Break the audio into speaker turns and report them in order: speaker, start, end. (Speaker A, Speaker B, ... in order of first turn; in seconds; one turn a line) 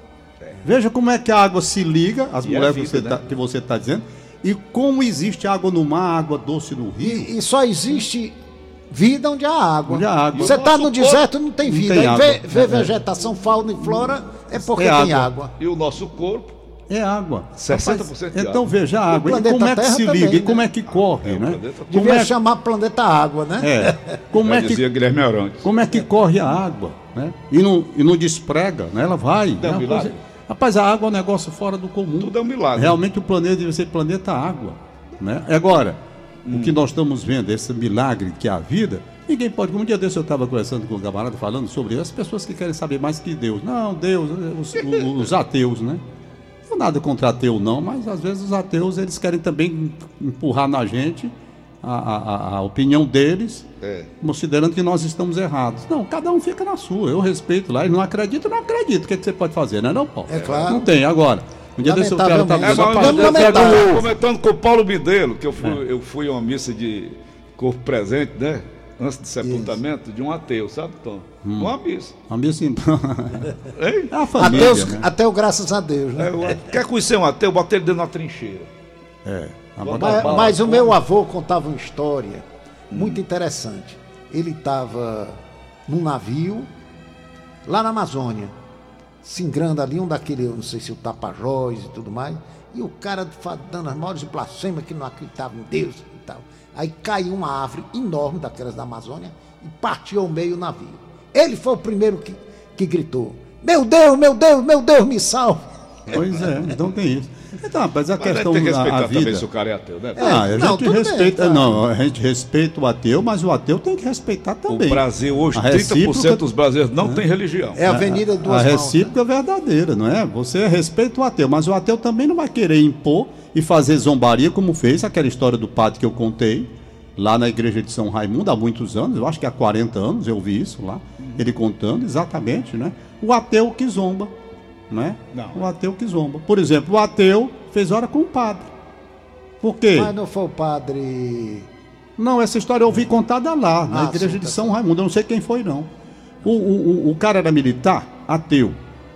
Speaker A: 0.6-7.3
Speaker B: 2.4-3.2
Speaker C: 7.0-8.4
Speaker C: 8.9-15.5
Speaker A: 9.9-10.6
Speaker B: 10.3-11.2
Speaker A: 11.6-12.9
Speaker A: 13.8-15.3
Speaker B: 15.6-16.5
Speaker A: 16.9-22.3
Speaker B: 17.6-18.7
Speaker C: 19.1-20.7
Speaker B: 20.9-22.1
Speaker C: 21.9-24.2
Speaker A: 23.6-24.9
Speaker B: 24.4-25.7
Speaker A: 25.6-36.0
Speaker B: 29.6-30.2
Speaker B: 32.2-33.0
Speaker B: 36.5-36.8
Speaker A: 36.5-46.0
Speaker B: 44.8-45.2
Speaker A: 46.7-53.7
Speaker B: 53.8-54.1
Speaker A: 54.2-64.1
Speaker C: 60.3-60.9
Speaker B: 60.4-60.7
Speaker C: 61.8-64.0
Speaker B: 62.6-72.2
Speaker C: 69.4-69.8
Speaker A: 71.4-71.7
Speaker A: 72.3-73.6
Speaker B: 73.7-74.8
Speaker A: 74.1-75.1
Speaker C: 74.4-76.7
Speaker B: 76.2-78.7
Speaker A: 79.2-80.8
Speaker B: 79.8-81.0
Speaker C: 79.9-86.7
Speaker B: 82.9-83.2
Speaker C: 87.7-88.5
Speaker C: 89.2-105.7
Speaker A: 106.1-109.5
Speaker B: 108.2-110.5
Speaker C: 110.2-111.8
Speaker A: 110.2-116.4
Speaker B: 114.7-117.8
Speaker C: 117.8-119.1
Speaker A: 117.9-134.3
Speaker B: 131.2-131.5
Speaker A: 134.9-138.7
Speaker B: 135.3-135.7
Speaker A: 139.6-140.1
Speaker C: 139.9-141.7
Speaker A: 142.2-145.9
Speaker C: 143.9-144.8
Speaker A: 146.4-148.8